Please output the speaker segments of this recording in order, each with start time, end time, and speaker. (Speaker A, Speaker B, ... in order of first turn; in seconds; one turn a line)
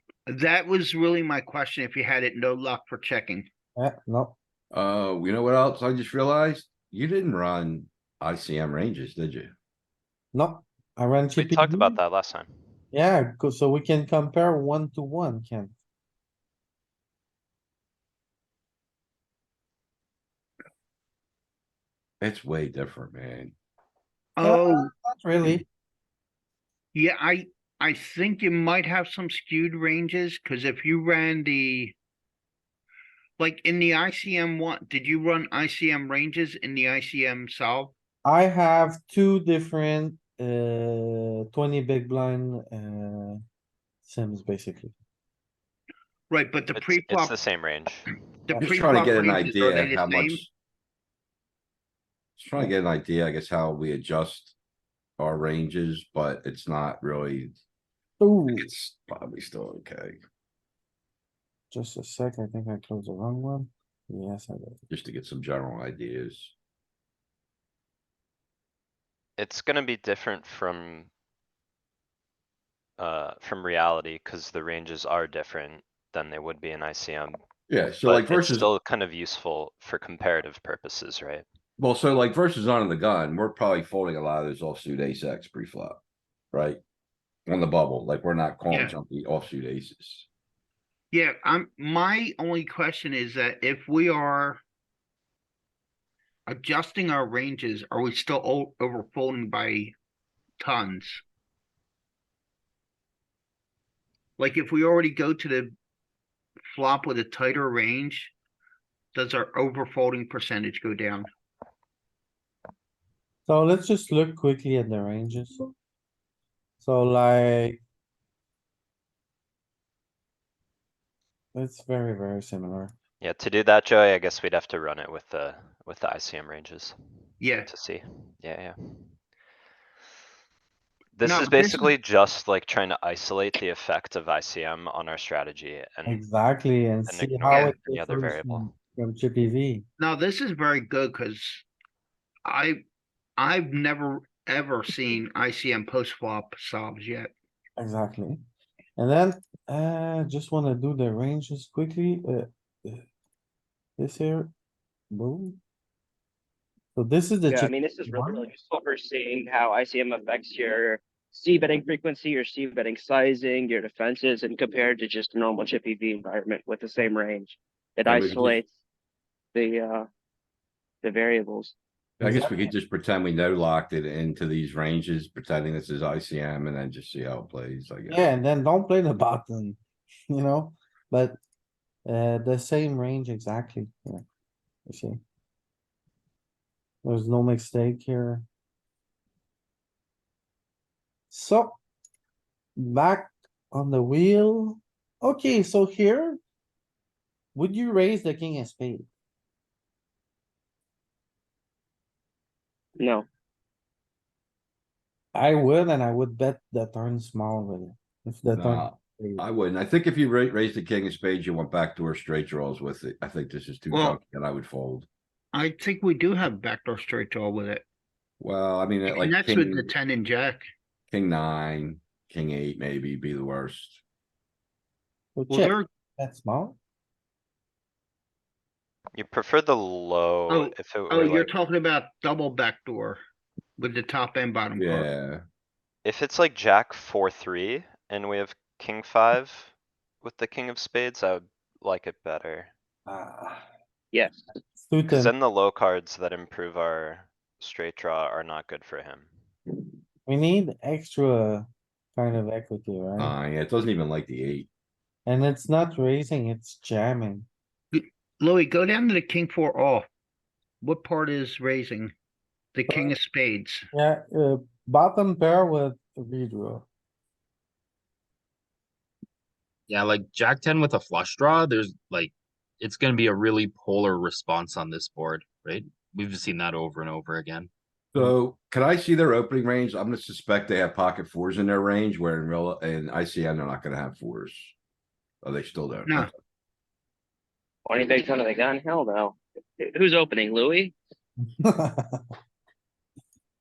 Speaker A: 0.3-3.5
Speaker B: 3.8-4.4
Speaker C: 4.7-9.5
Speaker B: 10.3-12.0
Speaker D: 11.4-12.5
Speaker B: 12.9-15.7
Speaker C: 22.2-23.5
Speaker A: 24.4-24.9
Speaker B: 24.4-25.6
Speaker A: 26.9-31.9
Speaker A: 33.4-37.9
Speaker B: 38.2-43.4
Speaker B: 44.0-44.9
Speaker A: 46.3-47.4
Speaker D: 46.7-48.2
Speaker A: 48.5-50.4
Speaker B: 48.5-48.8
Speaker C: 48.6-50.5
Speaker C: 52.4-54.5
Speaker C: 55.2-57.6
Speaker B: 58.2-58.7
Speaker C: 58.5-60.2
Speaker B: 61.7-64.8
Speaker C: 64.9-66.5
Speaker D: 69.4-71.1
Speaker D: 73.0-77.4
Speaker C: 77.7-78.7
Speaker D: 78.0-81.5
Speaker C: 81.8-86.0
Speaker C: 86.5-86.8
Speaker C: 87.5-90.3
Speaker A: 91.1-94.6
Speaker A: 96.5-99.9
Speaker A: 100.6-101.2
Speaker A: 104.4-105.7
Speaker A: 106.7-108.3
Speaker A: 109.1-111.3
Speaker B: 113.5-115.6
Speaker B: 116.8-117.8
Speaker B: 121.5-122.9
Speaker D: 123.2-127.0
Speaker A: 127.4-127.7
Speaker D: 127.7-129.2
Speaker D: 131.2-136.2
Speaker A: 131.2-131.9
Speaker B: 136.1-139.9
Speaker D: 137.1-138.7
Speaker A: 140.0-141.7
Speaker A: 142.5-142.8
Speaker A: 143.4-147.3
Speaker B: 147.8-148.4
Speaker B: 149.0-153.1
Speaker B: 154.0-154.5
Speaker B: 155.1-155.6
Speaker B: 156.9-158.4
Speaker E: 157.5-168.7
Speaker C: 168.1-168.6
Speaker E: 169.5-170.1
Speaker E: 171.0-171.8
Speaker C: 172.2-178.2
Speaker B: 172.2-172.7
Speaker B: 178.1-179.8
Speaker B: 180.3-181.4
Speaker B: 182.1-184.2
Speaker B: 184.9-185.2
Speaker B: 187.0-188.4
Speaker B: 191.3-191.8
Speaker B: 192.8-196.4
Speaker B: 197.6-199.1
Speaker E: 203.0-203.2
Speaker B: 205.3-209.4
Speaker C: 208.6-215.1
Speaker A: 213.9-214.2
Speaker A: 215.5-217.8
Speaker C: 218.4-219.9
Speaker A: 219.1-220.6
Speaker C: 221.1-224.0
Speaker B: 225.4-226.8
Speaker A: 225.5-225.9
Speaker D: 229.1-231.5
Speaker A: 230.5-233.2
Speaker A: 233.8-235.1
Speaker C: 234.8-235.4
Speaker D: 236.1-242.7
Speaker B: 243.1-243.7
Speaker E: 244.1-244.4
Speaker B: 244.7-245.3
Speaker D: 245.1-249.3
Speaker B: 250.2-253.4
Speaker C: 253.2-254.7
Speaker B: 255.3-257.5
Speaker A: 257.9-260.1
Speaker A: 260.8-262.1
Speaker A: 262.7-263.8
Speaker B: 262.9-263.1
Speaker B: 263.9-266.9
Speaker F: 269.9-277.7
Speaker C: 278.1-284.8
Speaker C: 285.4-286.3
Speaker E: 287.9-290.9
Speaker B: 291.4-292.2